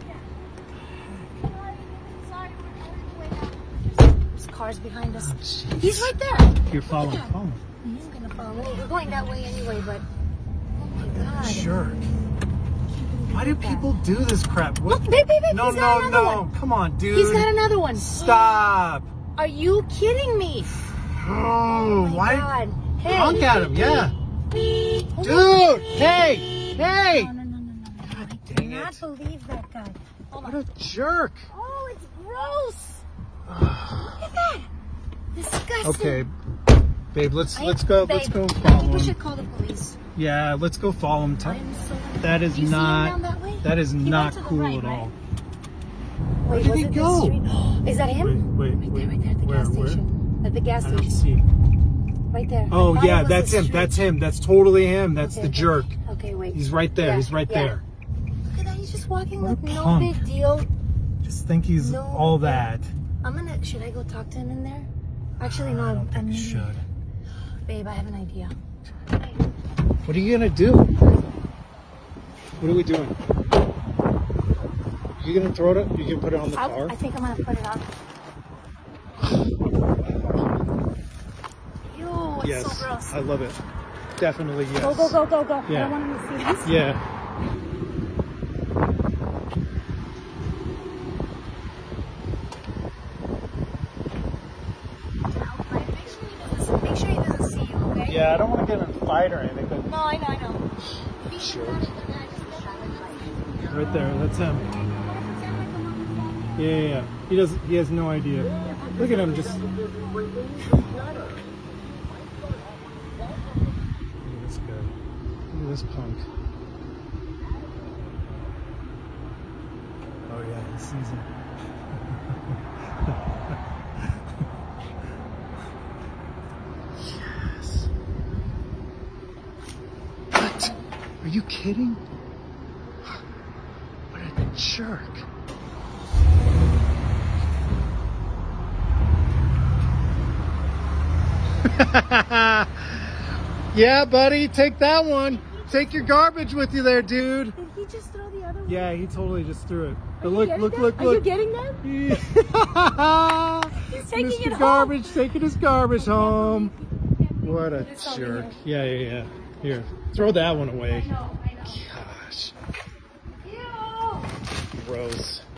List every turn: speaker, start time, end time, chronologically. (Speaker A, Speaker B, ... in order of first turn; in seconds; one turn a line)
Speaker A: 1.4-10.1
Speaker B: 5.2-7.6
Speaker A: 10.8-11.7
Speaker B: 11.0-12.1
Speaker A: 13.0-13.9
Speaker B: 13.3-19.1
Speaker A: 14.9-16.5
Speaker A: 17.1-18.7
Speaker A: 19.4-20.7
Speaker B: 21.0-22.5
Speaker A: 21.6-24.1
Speaker B: 23.0-24.1
Speaker A: 25.1-25.7
Speaker B: 25.2-27.3
Speaker A: 26.8-30.6
Speaker B: 28.0-29.1
Speaker B: 30.4-31.5
Speaker A: 31.5-33.0
Speaker B: 33.5-34.2
Speaker A: 34.2-34.7
Speaker A: 35.4-36.3
Speaker B: 35.8-36.3
Speaker B: 37.1-39.1
Speaker A: 37.5-40.0
Speaker B: 40.2-41.6
Speaker A: 41.4-45.1
Speaker B: 42.2-45.1
Speaker A: 46.4-51.2
Speaker B: 46.5-47.4
Speaker B: 48.1-50.0
Speaker B: 50.8-51.5
Speaker A: 52.3-54.0
Speaker B: 52.7-56.0
Speaker A: 55.2-57.8
Speaker B: 56.5-57.8
Speaker A: 58.5-60.7
Speaker B: 59.4-60.2
Speaker B: 61.2-62.9
Speaker A: 61.8-62.7
Speaker A: 63.2-66.7
Speaker B: 65.4-66.8
Speaker A: 67.7-68.5
Speaker A: 69.2-69.4
Speaker B: 70.0-70.9
Speaker B: 72.6-73.2
Speaker B: 75.2-77.0
Speaker A: 76.5-77.9
Speaker A: 81.9-83.2
Speaker B: 82.4-83.6
Speaker B: 84.2-86.0
Speaker A: 84.8-86.7
Speaker B: 86.6-87.0
Speaker A: 95.3-98.2
Speaker B: 98.1-99.9
Speaker A: 99.8-100.7
Speaker A: 101.2-103.6
Speaker B: 101.3-101.9
Speaker B: 103.6-104.7
Speaker A: 105.0-106.5
Speaker B: 106.6-109.7
Speaker A: 108.6-110.5
Speaker B: 110.6-111.1
Speaker B: 114.2-114.9
Speaker B: 115.5-116.3
Speaker B: 120.3-121.3
Speaker B: 122.0-123.2
Speaker B: 127.1-127.9
Speaker B: 130.3-132.0
Speaker B: 134.1-135.3
Speaker B: 141.6-143.2
Speaker B: 143.7-147.6
Speaker A: 145.4-146.1
Speaker A: 147.6-148.9
Speaker B: 148.7-151.3
Speaker A: 150.2-152.3
Speaker B: 151.8-156.7
Speaker A: 153.8-155.2
Speaker A: 155.9-158.6
Speaker B: 157.4-161.1
Speaker A: 160.9-161.8
Speaker B: 161.6-162.5
Speaker A: 163.4-164.3
Speaker B: 164.7-165.4